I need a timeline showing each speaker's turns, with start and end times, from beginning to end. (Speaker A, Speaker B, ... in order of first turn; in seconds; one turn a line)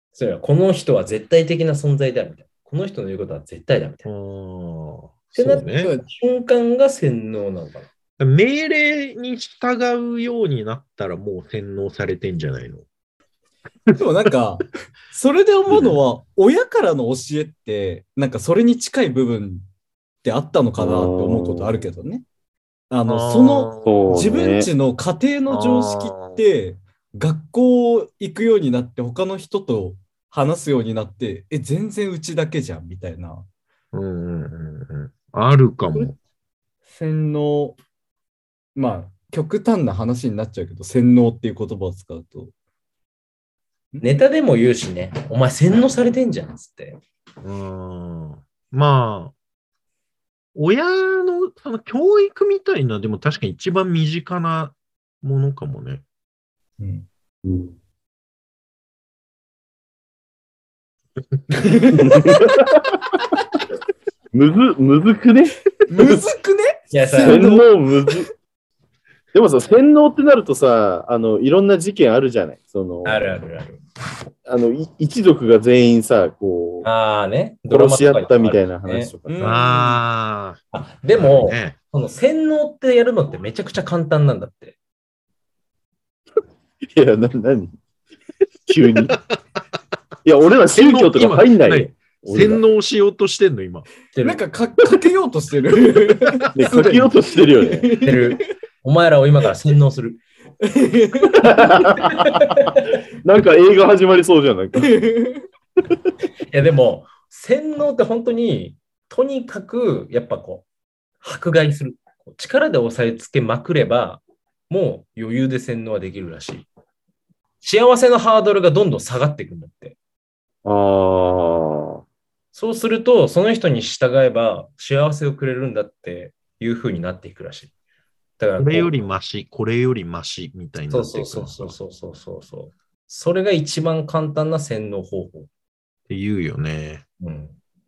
Speaker A: 0.1-4.1
Speaker B: 4.0-5.9
Speaker A: 5.3-7.9
Speaker C: 5.8-6.0
Speaker B: 8.2-12.8
Speaker C: 13.9-19.6
Speaker B: 15.7-16.0
Speaker C: 20.2-22.2
Speaker D: 20.8-21.8
Speaker C: 22.9-33.5
Speaker B: 23.1-24.0
Speaker D: 23.8-24.7
Speaker B: 25.5-26.4
Speaker B: 33.9-36.1
Speaker C: 36.9-37.8
Speaker C: 38.8-42.5
Speaker A: 44.0-47.0
Speaker B: 47.4-49.3
Speaker B: 50.5-56.0
Speaker C: 56.8-57.0
Speaker D: 57.4-57.7
Speaker C: 61.6-62.6
Speaker D: 61.9-63.2
Speaker D: 64.3-66.3
Speaker C: 65.9-68.2
Speaker A: 66.9-67.5
Speaker D: 67.2-68.3
Speaker D: 69.3-73.2
Speaker A: 73.0-73.8
Speaker D: 74.4-76.9
Speaker A: 76.8-79.1
Speaker D: 77.7-79.6
Speaker C: 79.3-80.0
Speaker B: 79.4-80.6
Speaker A: 80.7-84.8
Speaker B: 81.1-81.8
Speaker D: 86.9-87.7
Speaker D: 88.7-89.2
Speaker D: 90.2-92.6
Speaker B: 90.7-93.9
Speaker A: 94.1-94.4
Speaker C: 94.2-98.4
Speaker D: 96.5-97.9
Speaker A: 98.0-100.2
Speaker C: 100.7-101.7
Speaker D: 101.4-102.1
Speaker A: 102.0-103.0
Speaker D: 103.2-104.9
Speaker C: 104.8-105.4
Speaker A: 106.5-110.6
Speaker A: 111.2-116.7
Speaker A: 117.6-120.0
Speaker D: 120.6-122.0
Speaker A: 122.5-127.7
Speaker A: 128.4-129.0
Speaker B: 128.6-131.7
Speaker A: 130.9-135.5
Speaker B: 136.1-137.0
Speaker A: 137.2-137.6